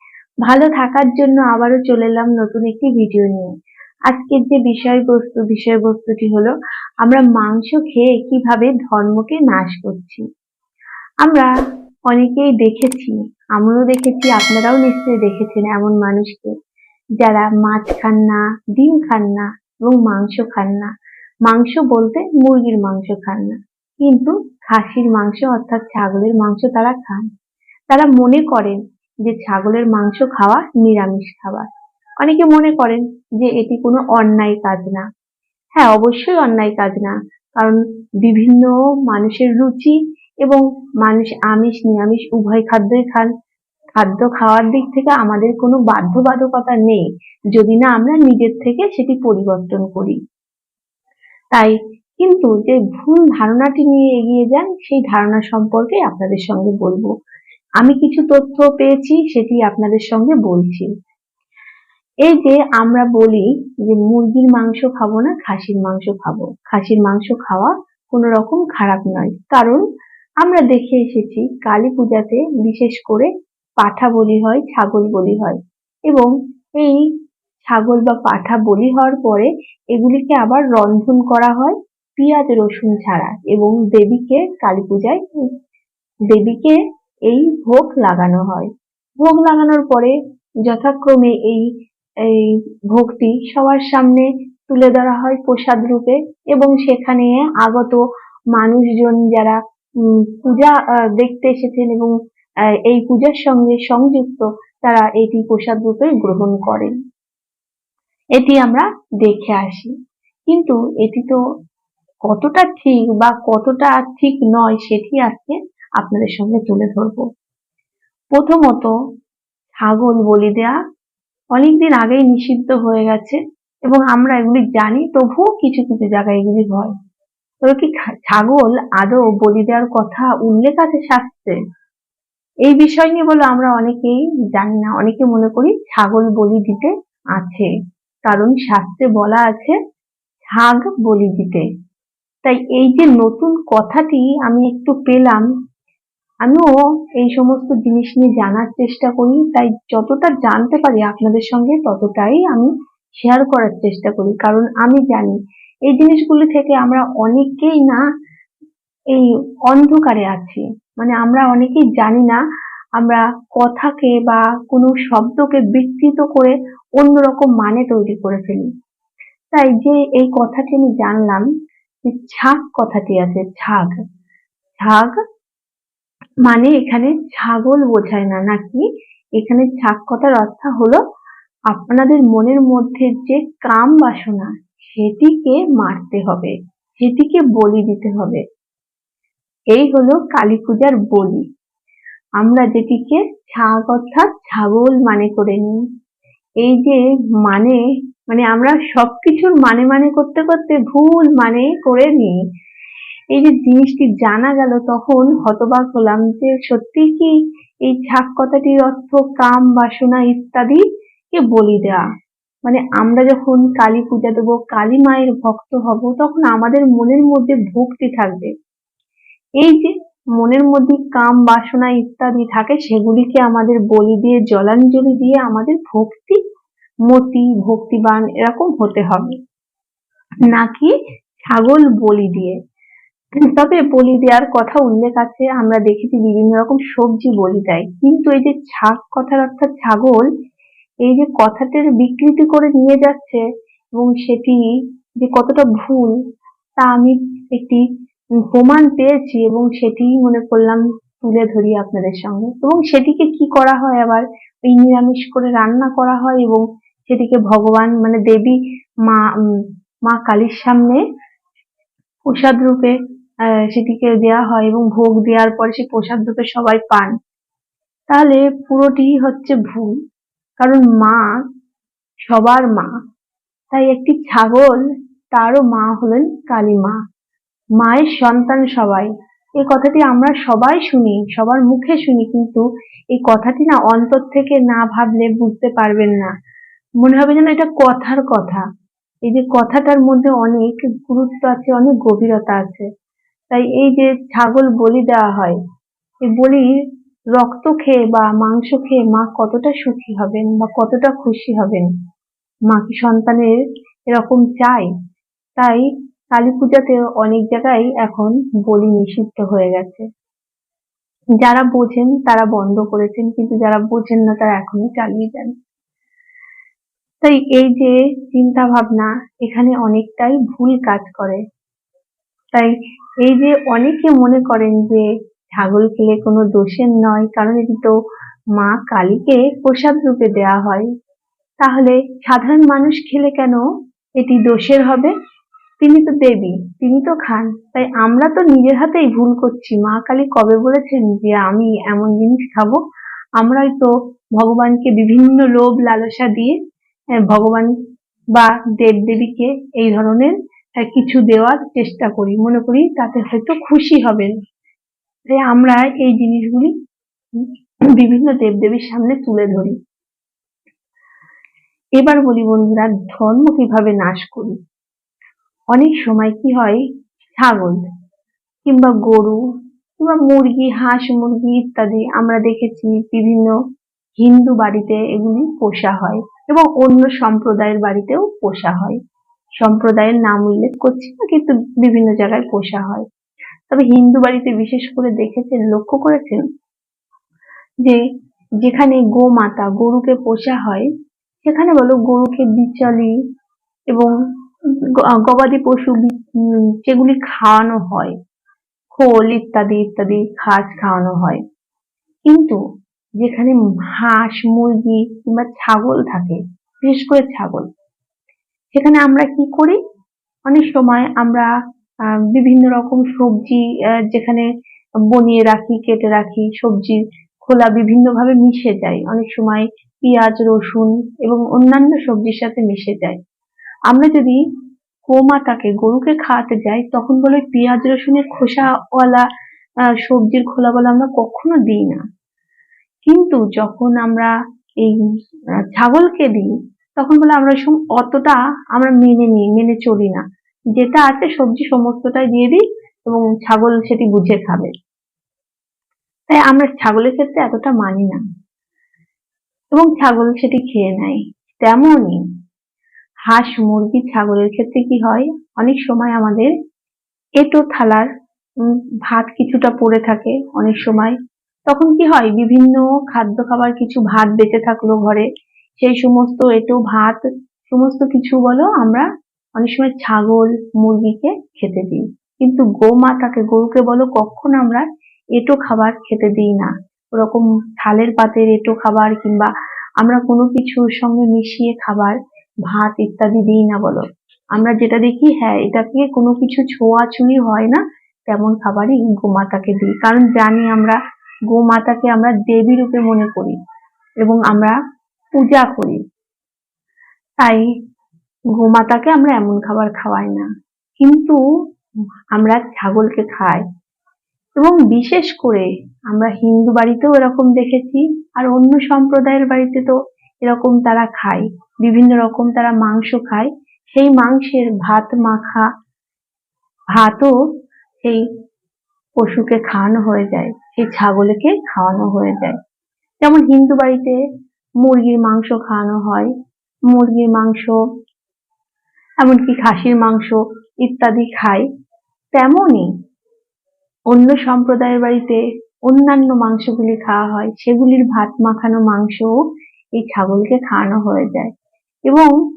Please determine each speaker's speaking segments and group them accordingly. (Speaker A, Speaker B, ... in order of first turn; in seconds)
Speaker A: 0.4-3.5, 4.1-10.2, 11.2-11.5, 12.1-16.5, 17.2-20.9, 21.4-27.2, 27.9-31.6, 32.2-35.0, 35.8-43.3, 44.0-50.2, 51.5-57.1, 57.8-60.9, 62.2-69.8, 70.4-73.3, 73.8-77.1, 77.6-85.2, 86.3-91.6, 92.2-98.0, 98.5-102.1, 102.9-106.9, 108.4-109.9, 110.5-111.4, 112.2-117.2, 118.3-118.9, 119.8-120.7, 121.5-126.9, 127.6-131.6, 132.6-137.7, 138.2-139.8, 140.5-141.7, 142.4-145.4, 146.4-158.0, 159.1-162.4, 163.0-168.7, 169.5-171.4, 172.0-173.9, 174.8-175.2, 176.4-178.8, 179.4-181.0, 181.7-188.4, 189.7-191.4, 192.4-195.8, 196.6-202.4, 203.3-207.3, 207.8-212.0, 212.6-218.5, 219.6-226.4, 227.1-229.3, 230.5-230.9, 231.5-232.6, 233.4-240.2, 241.0-243.4, 244.0-244.6, 245.2-246.1, 246.8-247.8, 248.5-259.2, 260.1-261.0, 262.2-262.9, 263.7-267.1, 268.1-269.9, 270.6-271.2, 272.3-272.9, 273.7-274.8, 275.3-277.0, 277.8-286.3, 287.0-288.6, 289.2-292.9, 293.5-295.6, 296.3-296.7, 297.3-301.9, 302.7-303.6, 304.1-304.9, 305.6-310.0, 311.4-315.5, 317.2-321.4, 323.2-327.9, 328.6-330.9, 331.6-333.6, 334.2-335.1, 335.8-342.8, 343.4-346.6, 347.2-347.7, 348.3-354.3, 355.3-356.7, 357.4-359.8, 362.0-364.6, 365.7-366.8, 367.3-367.8, 368.6-369.4, 370.0-373.5, 374.2-379.0, 379.6-383.1, 383.7-386.4, 388.6-390.9, 391.4-393.1, 395.1-398.1, 398.9-401.4, 402.3-402.6, 403.2-407.7, 408.7-409.8, 410.5-411.5, 412.3-414.5, 415.1-423.2, 423.9-424.4, 425.1-429.2, 430.0-432.0, 433.1-434.9, 435.7-440.2, 440.7-444.7, 446.3-448.2, 449.7-452.2, 453.3-456.5, 457.4-458.1, 458.6-465.3, 465.8-482.2, 482.7-491.0, 491.5-493.6, 494.2-494.8, 495.4-496.0, 497.4-497.6, 498.6-500.5, 501.0-501.4, 502.4-503.6, 504.6-515.6, 517.0-517.3, 519.2-522.6, 523.2-524.2, 524.8-526.3, 526.9-527.8, 529.2-531.6, 532.3-532.9, 534.1-539.3, 540.0-541.5, 542.1-542.3